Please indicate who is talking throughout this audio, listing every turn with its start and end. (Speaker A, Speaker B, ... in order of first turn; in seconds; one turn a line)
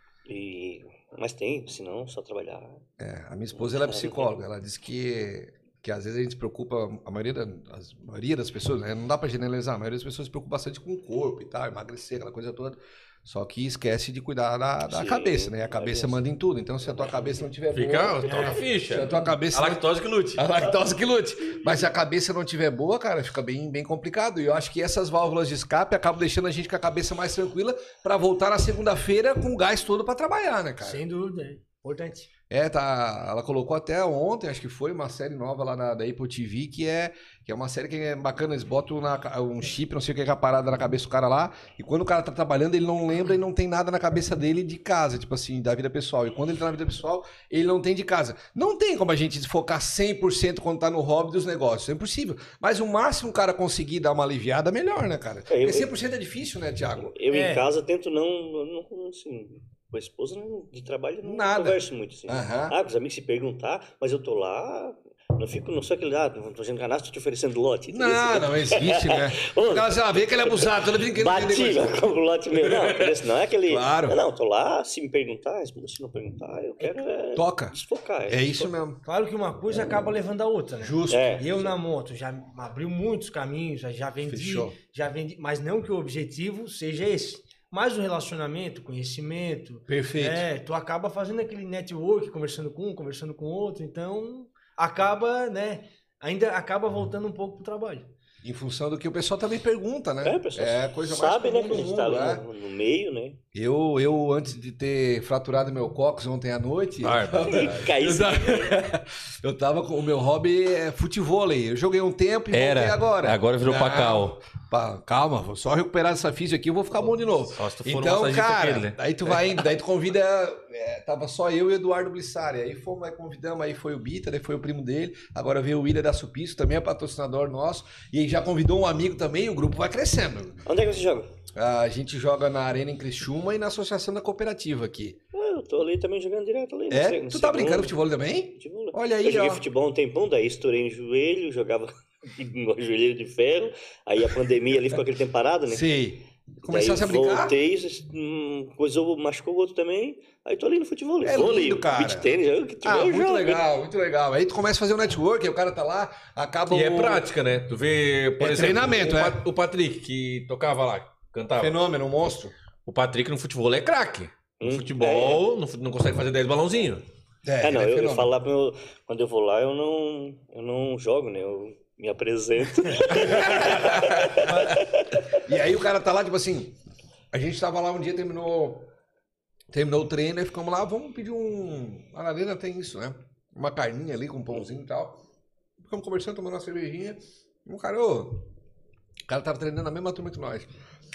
Speaker A: 0.3-2.8
Speaker B: 3.0-19.8
Speaker A: 3.6-4.3
Speaker A: 14.9-16.2
Speaker A: 16.8-17.5
Speaker C: 17.7-20.5
Speaker B: 20.3-31.0
Speaker D: 30.8-32.3
Speaker B: 32.5-57.1
Speaker A: 55.5-55.9
Speaker A: 57.0-78.7
Speaker D: 57.3-57.6
Speaker B: 61.2-62.8
Speaker B: 67.9-73.1
Speaker B: 73.7-74.2
Speaker B: 77.3-77.7
Speaker B: 78.3-79.0
Speaker D: 79.0-98.1
Speaker B: 80.8-81.4
Speaker A: 81.1-81.7
Speaker B: 84.2-84.7
Speaker B: 89.9-90.5
Speaker B: 98.4-102.4
Speaker A: 100.2-103.4
Speaker B: 103.5-130.6
Speaker C: 107.0-107.8
Speaker A: 107.5-108.8
Speaker C: 112.5-114.4
Speaker C: 117.5-119.5
Speaker A: 130.7-131.3
Speaker B: 131.6-135.2
Speaker A: 135.3-138.0
Speaker B: 136.9-139.6
Speaker A: 138.6-145.9
Speaker B: 145.7-147.6
Speaker A: 146.6-153.6
Speaker B: 151.2-157.2
Speaker C: 156.7-161.7
Speaker B: 158.4-159.4
Speaker B: 161.6-162.5
Speaker C: 162.8-167.0
Speaker A: 164.6-165.4
Speaker B: 167.4-168.3
Speaker A: 167.6-175.4
Speaker B: 173.1-174.8
Speaker B: 175.3-176.8
Speaker B: 177.3-178.9
Speaker B: 179.7-185.2
Speaker B: 185.8-188.5
Speaker B: 189.3-190.7